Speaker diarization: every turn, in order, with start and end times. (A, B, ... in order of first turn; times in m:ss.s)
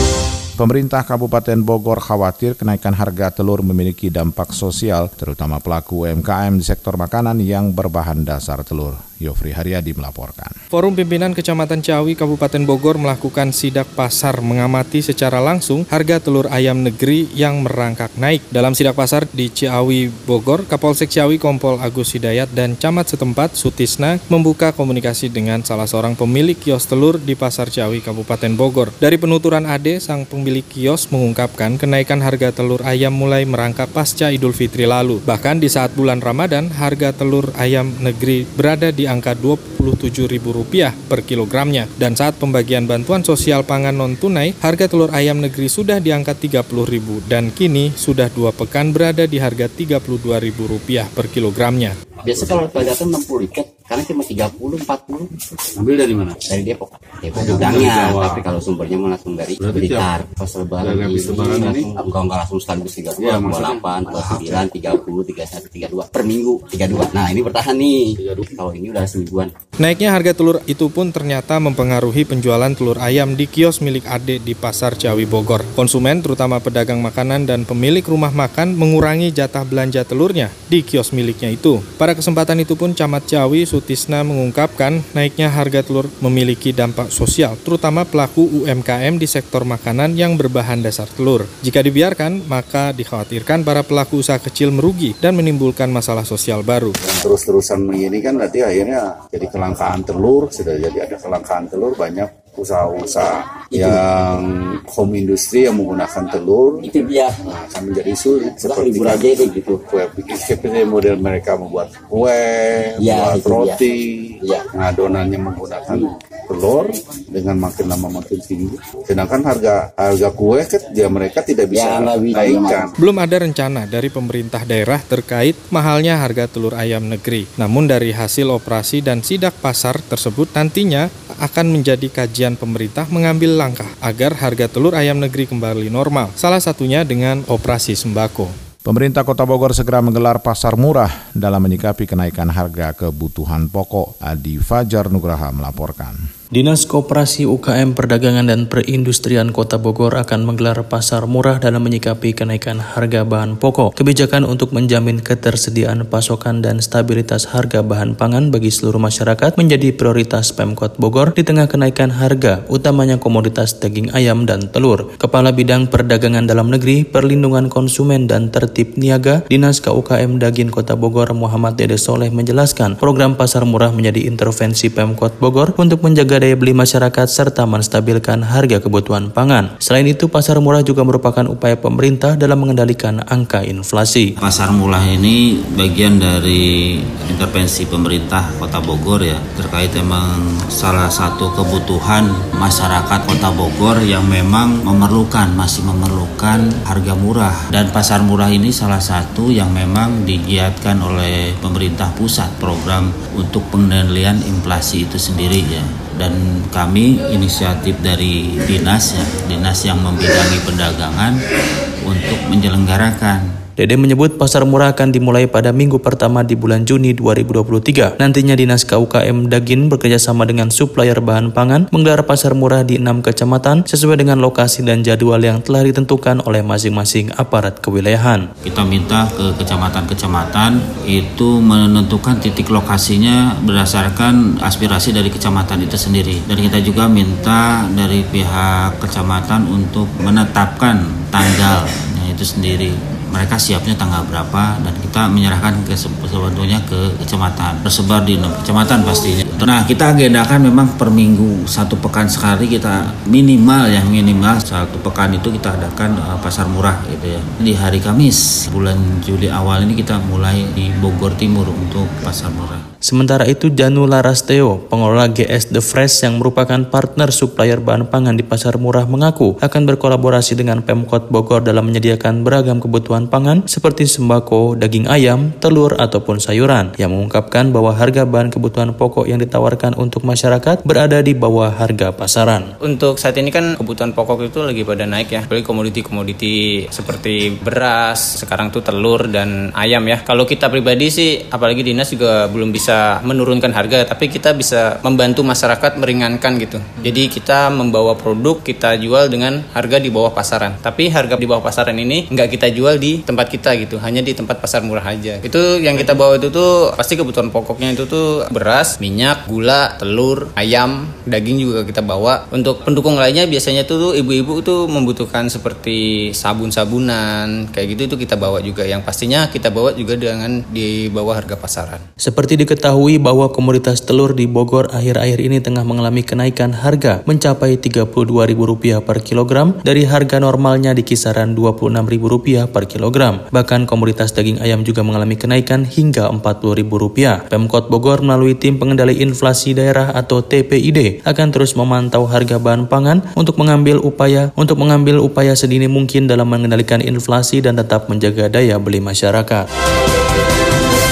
0:00.6-0:10.6 A
0:10.7-0:51.9 B
0:52.2-0:55.3 C
0:52.3-0:53.0 D
0:55.8-1:09.5 C
0:55.8-0:56.3 D
0:57.4-0:58.5 D
0:59.6-1:00.1 D
1:00.8-1:02.1 D
1:03.1-1:04.7 D
1:08.2-1:08.5 D
1:09.8-1:37.0 B
1:37.0-2:02.9 D
1:43.7-1:44.0 C
1:46.9-1:47.4 C
1:48.5-1:49.8 C
1:53.0-1:53.8 C
2:01.7-2:02.8 C
2:03.0-2:18.5 B
2:18.8-2:26.2 A
2:26.5-3:04.3 E
3:04.4-3:31.4 F
3:32.0-3:33.4 F
3:33.8-3:48.5 E
3:48.6-4:22.8 F
4:23.0-4:42.7 E
4:42.8-5:22.0 G
5:22.2-5:49.6 E